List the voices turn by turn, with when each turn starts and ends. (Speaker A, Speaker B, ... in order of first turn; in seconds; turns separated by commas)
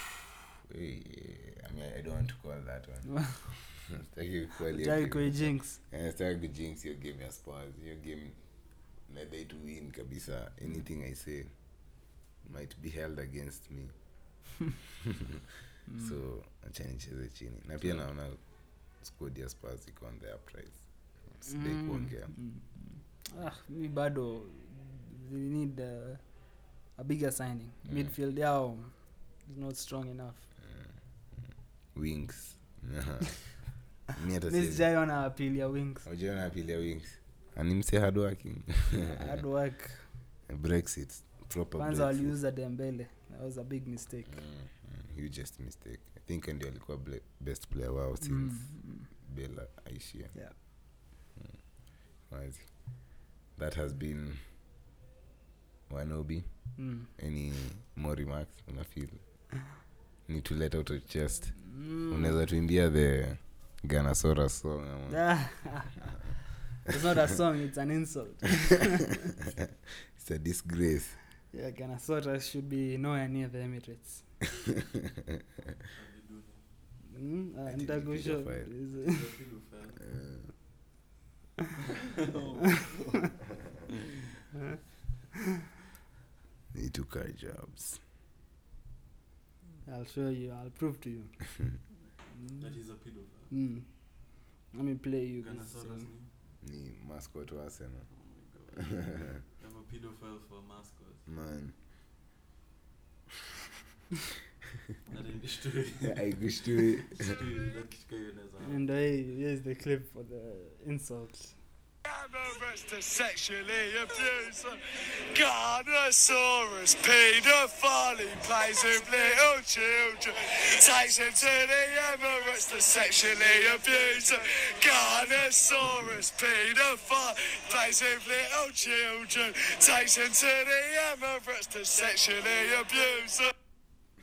Speaker A: 0.7-8.4, Speaker B: 4.7-5.8, Speaker A: 9.1-11.5, Speaker A: 12.4-13.9, Speaker A: 15.0-18.4, Speaker B: 15.9-16.2, Speaker A: 19.0-20.9, Speaker A: 21.4-22.3, Speaker B: 21.4-26.2, Speaker B: 26.9-30.5, Speaker A: 27.9-28.1, Speaker A: 30.6-30.9, Speaker A: 31.9-34.9, Speaker B: 34.5-36.0, Speaker A: 36.0-39.4, Speaker B: 39.1-40.1, Speaker A: 40.5-42.3, Speaker B: 41.8-44.5, Speaker A: 44.3-50.4, Speaker B: 48.2-49.1, Speaker A: 52.2-54.4, Speaker A: 55.9-59.2, Speaker B: 56.8-57.1, Speaker A: 60.2-65.6, Speaker B: 61.6-62.4, Speaker B: 65.1-66.2, Speaker B: 66.8-69.3, Speaker A: 70.1-71.2, Speaker B: 71.5-74.2, Speaker A: 74.8-75.3, Speaker C: 75.9-76.6, Speaker B: 77.1-79.2, Speaker A: 77.7-78.7, Speaker C: 79.0-80.1, Speaker A: 80.1-80.5, Speaker C: 81.9-84.2, Speaker A: 86.7-88.0, Speaker B: 89.9-91.3, Speaker C: 92.5-93.5, Speaker B: 93.5-93.9, Speaker B: 94.7-96.1, Speaker C: 95.4-96.3, Speaker A: 96.6-98.1, Speaker C: 98.1-101.3, Speaker A: 98.9-99.4, Speaker A: 101.3-101.7, Speaker C: 105.1-106.5, Speaker A: 106.0-107.4, Speaker C: 107.0-108.8, Speaker B: 108.6-111.5, Speaker D: 112.0-114.8, Speaker D: 115.3-133.5